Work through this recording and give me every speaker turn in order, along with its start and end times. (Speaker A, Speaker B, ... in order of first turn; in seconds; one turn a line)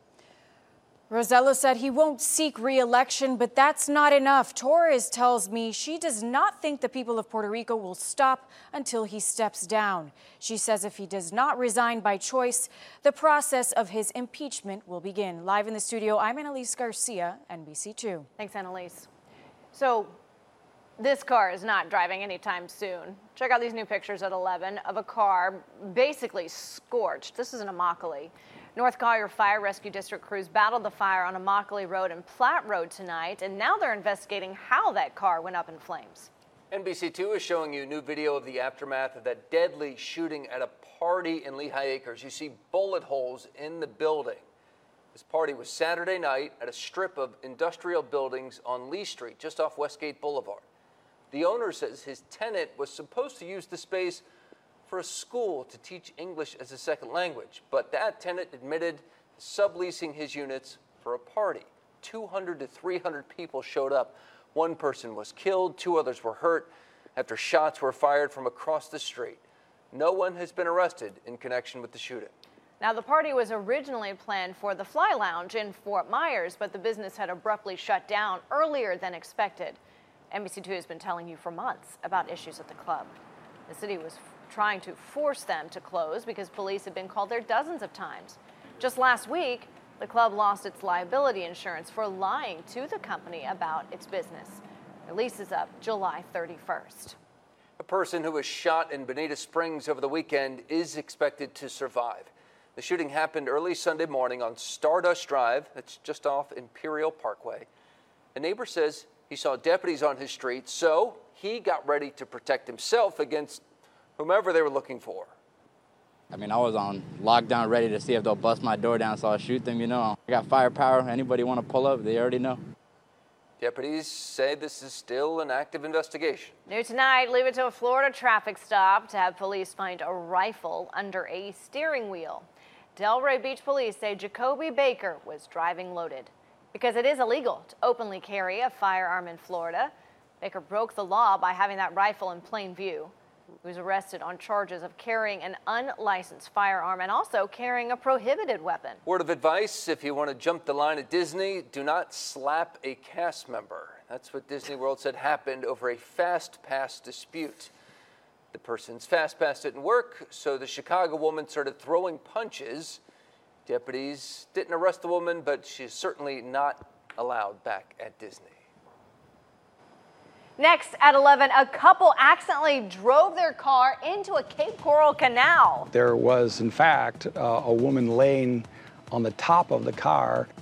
Speaker A: 1.1-18.3
Speaker B: 18.4-19.1
Speaker B: 19.7-20.1
Speaker B: 21.0-36.3
Speaker C: 36.7-44.4
Speaker C: 45.1-50.6
Speaker C: 51.3-54.2
Speaker C: 54.9-72.3
Speaker B: 72.8-79.8
Speaker B: 80.3-83.1
Speaker B: 83.7-97.2
Speaker C: 97.8-107.7
Speaker C: 108.3-113.6
Speaker C: 114.2-115.3
Speaker D: 116.3-122.6
Speaker C: 123.6-126.6
Speaker B: 126.7-143.1
Speaker B: 143.6-149.0
Speaker C: 149.1-157.7
Speaker C: 158.5-163.0
Speaker C: 163.7-168.6
Speaker B: 170.6-175.9
Speaker E: 175.9-180.5